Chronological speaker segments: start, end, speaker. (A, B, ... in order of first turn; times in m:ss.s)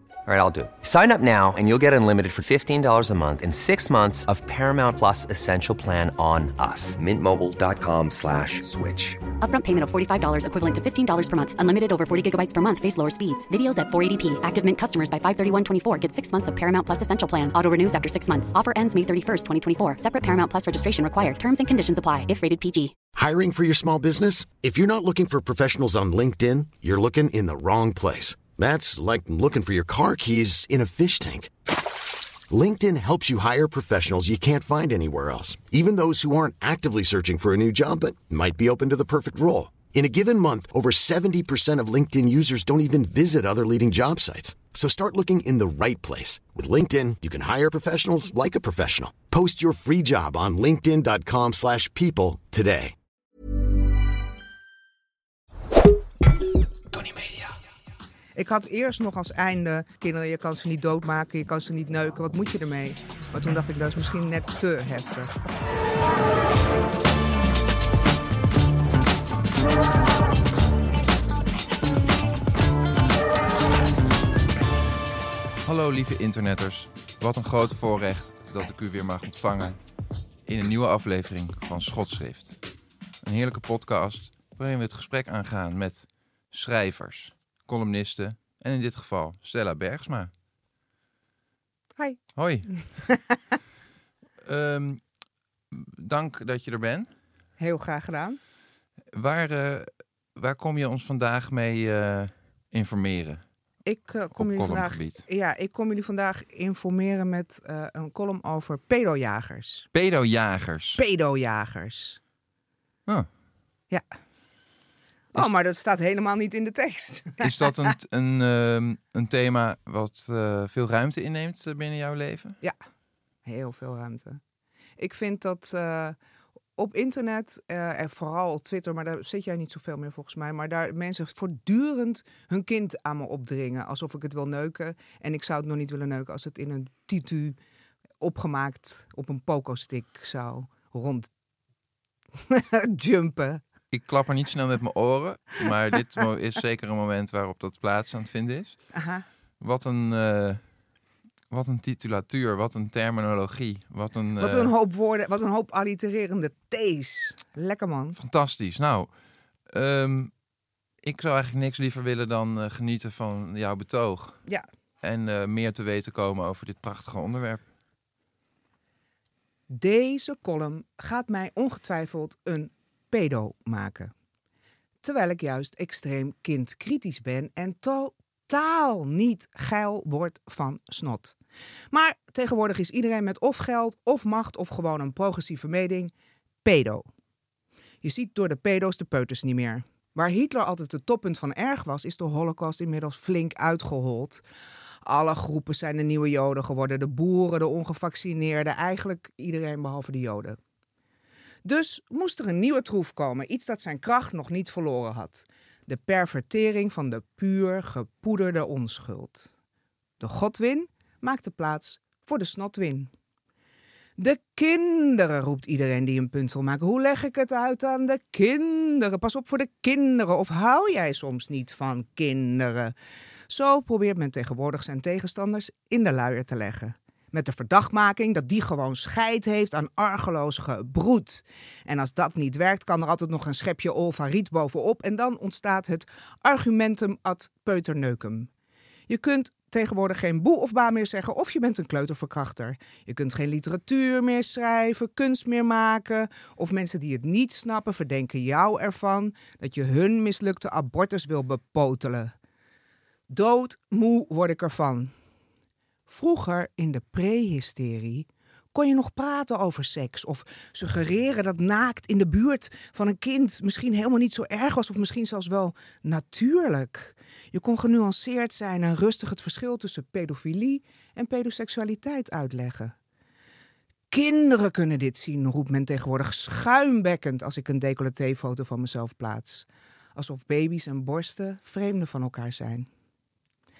0:00.2-0:09.2 A
0:09.4-0:22.9 B
0:23.1-0:31.5 C
0:32.5-0:52.9 C
0:58.4-1:05.4 D
1:15.6-1:19.8 E
1:20.4-1:22.6 E
1:23.2-1:30.3 E
1:32.4-1:32.7 E
1:32.7-1:33.2 D
1:34.4-1:35.0 E
1:35.7-1:37.1 E
1:37.6-1:38.4 D
1:39.1-1:43.4 E
1:43.8-1:49.9 D
1:44.3-1:45.2 E
1:49.9-1:51.0 E
1:51.0-1:52.2 D
1:55.3-1:57.9 D
1:57.4-2:02.6 E
2:03.4-2:04.4 D
2:05.0-2:06.2 D
2:06.8-2:17.6 D
2:18.2-2:21.3 D
2:22.5-2:23.6 D
2:23.9-2:28.8 E
2:28.9-2:29.2 D
2:29.6-2:30.6 E
2:31.5-2:34.7 E
2:34.4-2:38.2 D
2:38.2-2:39.1 E
2:39.7-2:40.3 E
2:41.0-2:44.4 E
2:45.0-2:47.6 E
2:49.7-2:54.1 D
2:55.0-3:01.4 D
3:01.9-3:06.1 D
3:06.6-3:07.1 D
3:08.0-3:14.4 D
3:15.0-3:20.6 D
3:21.6-3:29.5 D
3:30.2-3:33.1 D
3:34.2-3:42.9 D
3:43.5-3:58.5 D
3:59.1-4:12.3 D
4:13.3-4:15.1 D
4:16.1-4:32.9 D
4:34.1-4:42.9 D